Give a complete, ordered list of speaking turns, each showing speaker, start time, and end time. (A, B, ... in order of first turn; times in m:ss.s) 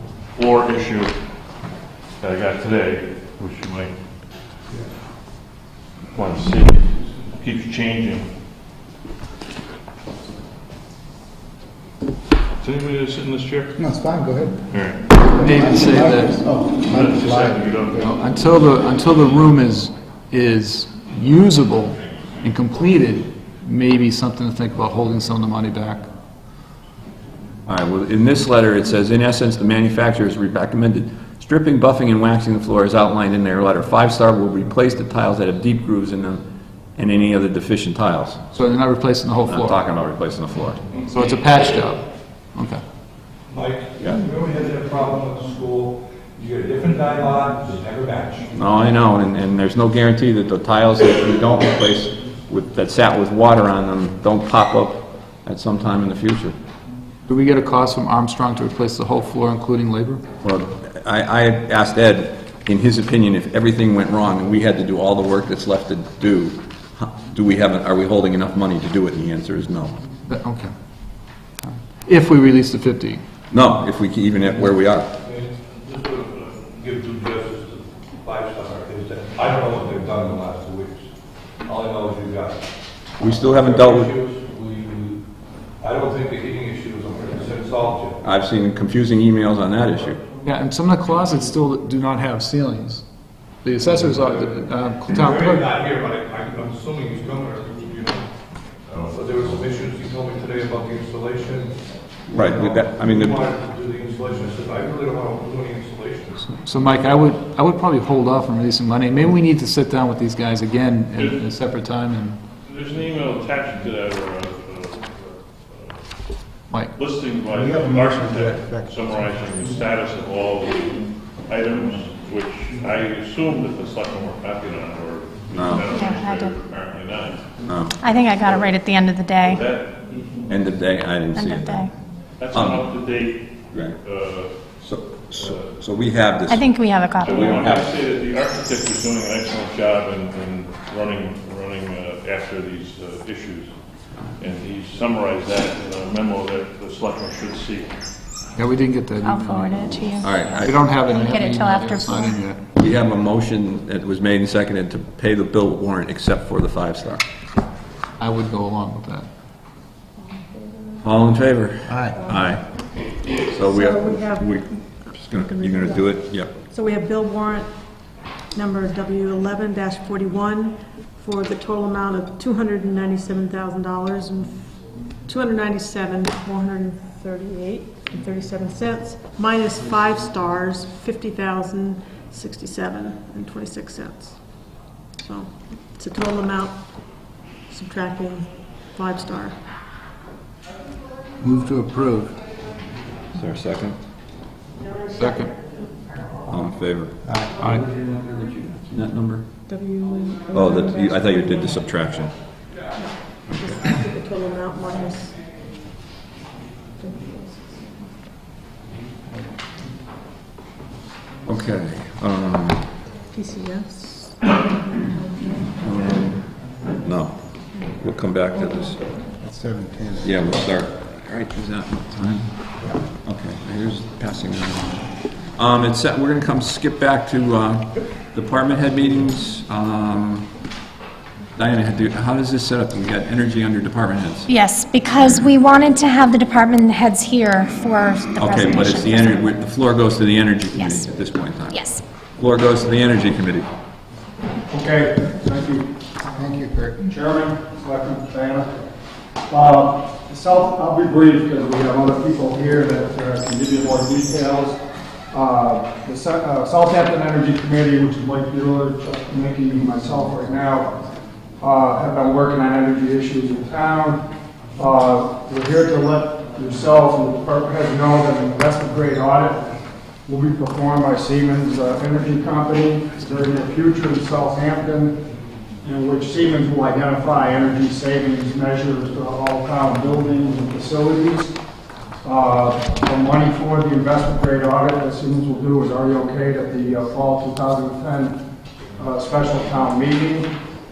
0:00.4-0:01.1 A
0:02.2-0:03.9 A
0:06.1-0:08.3 A
0:12.6-0:13.8 A
0:13.8-0:14.6 B
0:14.7-0:15.0 A
0:15.1-0:18.1 B
0:15.3-0:16.5 C
0:16.6-0:18.0 A
0:17.8-0:26.1 C
0:27.7-0:36.4 D
0:37.0-0:38.4 D
0:38.5-0:39.8 C
0:39.5-0:40.8 D
0:41.0-0:42.0 C
0:42.6-0:42.8 C
0:43.5-0:48.6 E
0:48.6-0:56.6 D
0:57.3-1:00.2 C
1:00.4-1:09.9 D
1:10.3-1:10.7 C
1:11.6-1:13.2 C
1:13.5-1:15.1 D
1:16.8-1:21.0 E
1:21.7-1:22.6 E
1:23.2-1:24.1 D
1:23.2-1:25.2 E
1:25.8-1:28.2 E
1:28.2-1:30.2 D
1:30.4-1:33.0 C
1:33.6-1:35.7 C
1:35.2-1:38.2 E
1:38.9-1:39.5 A
1:39.2-1:41.7 E
1:42.3-1:43.4 D
1:42.4-1:46.4 E
1:46.5-1:52.4 C
1:51.2-1:51.4 A
1:52.6-1:56.0 A
1:56.7-1:57.0 C
1:56.9-2:07.5 A
1:57.6-1:59.2 B
2:05.6-2:05.9 D
2:05.9-2:06.6 F
2:07.7-2:08.0 D
2:08.0-2:09.6 F
2:08.4-2:08.7 A
2:09.4-2:10.0 A
2:10.5-2:11.9 D
2:11.3-2:11.9 F
2:12.4-2:14.5 A
2:12.5-2:12.9 D
2:13.7-2:14.0 D
2:14.8-2:17.9 D
2:15.4-2:15.7 A
2:16.5-2:17.7 F
2:17.2-2:23.7 A
2:24.4-2:27.9 A
2:28.6-2:29.9 C
2:29.2-2:32.4 F
2:30.2-2:30.8 D
2:30.6-2:32.7 C
2:32.8-2:37.2 D
2:38.2-2:39.3 C
2:40.4-2:40.9 E
2:41.0-2:46.5 D
2:41.9-2:42.2 B
2:43.7-2:44.2 E
2:44.0-2:44.4 G
2:45.6-2:45.9 E
2:46.7-2:47.0 E
2:46.7-2:47.6 G
2:48.6-2:54.5 G
2:49.4-2:49.7 E
2:53.2-2:53.8 E
2:55.3-3:04.3 G
2:56.3-3:00.0 E
3:02.3-3:02.6 E
3:05.2-3:06.8 G
3:07.7-3:08.2 E
3:07.7-3:09.6 G
3:11.4-3:12.4 B
3:13.4-3:14.0 D
3:15.2-3:15.5 C
3:16.5-3:17.2 D
3:17.2-3:17.6 B
3:17.6-3:17.9 C
3:17.7-3:19.5 D
3:19.7-3:20.8 G
3:19.7-3:21.0 E
3:20.5-3:22.3 D
3:23.0-3:25.2 E
3:24.2-3:25.3 G
3:27.0-3:28.2 E
3:27.0-3:27.7 G
3:31.4-3:32.8 D
3:33.3-3:34.3 E
3:33.5-3:34.3 G
3:35.8-3:36.4 D
3:37.0-3:39.1 D
3:39.4-3:40.6 B
3:40.2-3:42.5 D
3:43.1-3:50.5 D
3:51.6-3:54.5 D
3:54.5-3:59.4 F
3:58.4-4:03.7 D
4:00.7-4:01.1 F
4:01.7-4:02.0 F
4:04.7-4:05.9 H
4:06.4-4:07.1 B
4:07.0-4:08.8 H
4:09.5-4:14.8 H
4:15.3-4:20.9 H
4:21.6-4:24.2 H
4:24.8-4:29.7 H
4:30.3-4:35.2 H
4:35.8-4:41.6 H
4:42.2-4:48.4 H
4:49.0-4:50.5 H